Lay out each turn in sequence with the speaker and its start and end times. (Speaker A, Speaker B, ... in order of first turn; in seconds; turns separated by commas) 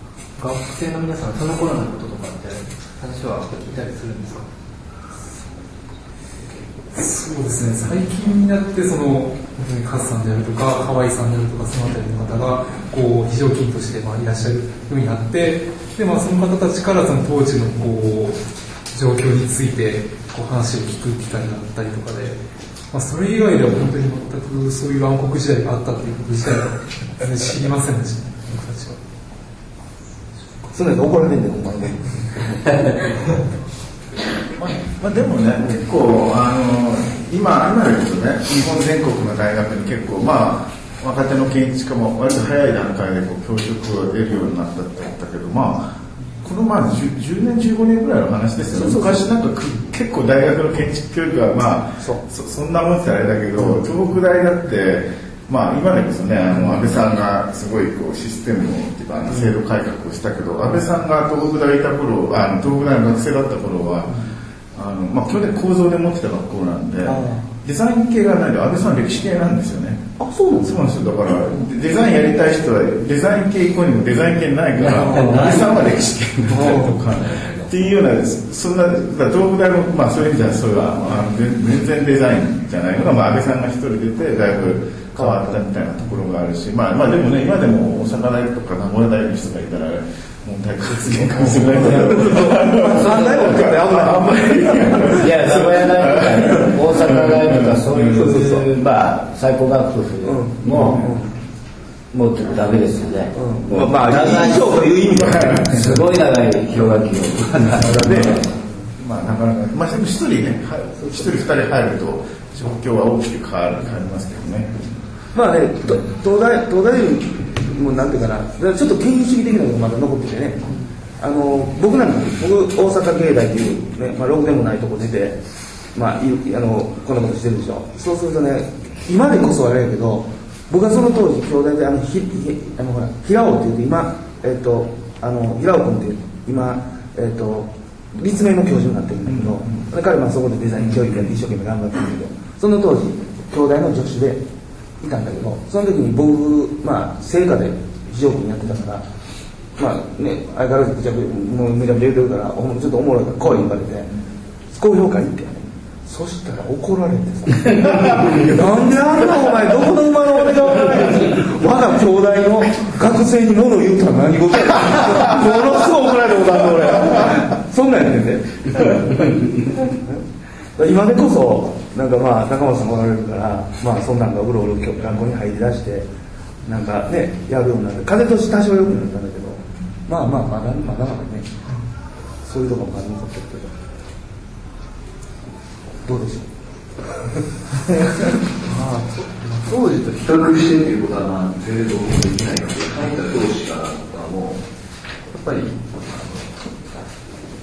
Speaker A: 0.4-4.5, Speaker B: 7.0-18.4, Speaker B: 18.9-22.4, Speaker B: 22.9-29.0, Speaker C: 30.7-32.5, Speaker D: 34.6-45.9, Speaker D: 46.4-64.2, Speaker C: 48.7-49.3, Speaker C: 59.3-59.6, Speaker D: 64.8-70.0, Speaker C: 67.0-67.5, Speaker C: 70.2-70.9, Speaker D: 70.6-98.5, Speaker E: 74.8-75.9, Speaker C: 75.0-75.6, Speaker C: 76.5-77.0, Speaker C: 84.6-85.6, Speaker C: 91.1-95.3, Speaker E: 93.0-93.3, Speaker E: 95.0-101.0, Speaker C: 100.2-101.3, Speaker D: 100.7-101.1, Speaker E: 102.1-108.4, Speaker C: 103.3-105.9, Speaker D: 105.2-106.0, Speaker D: 107.8-108.4, Speaker C: 107.8-108.5, Speaker D: 109.0-115.0, Speaker C: 115.3-125.4, Speaker C: 125.9-144.4, Speaker D: 139.3-139.8, Speaker C: 145.0-149.1, Speaker C: 149.8-154.1, Speaker C: 154.7-170.2, Speaker C: 170.8-176.1, Speaker C: 176.6-181.5, Speaker C: 182.4-183.7, Speaker C: 186.1-186.5, Speaker F: 188.7-194.6, Speaker F: 195.3-196.6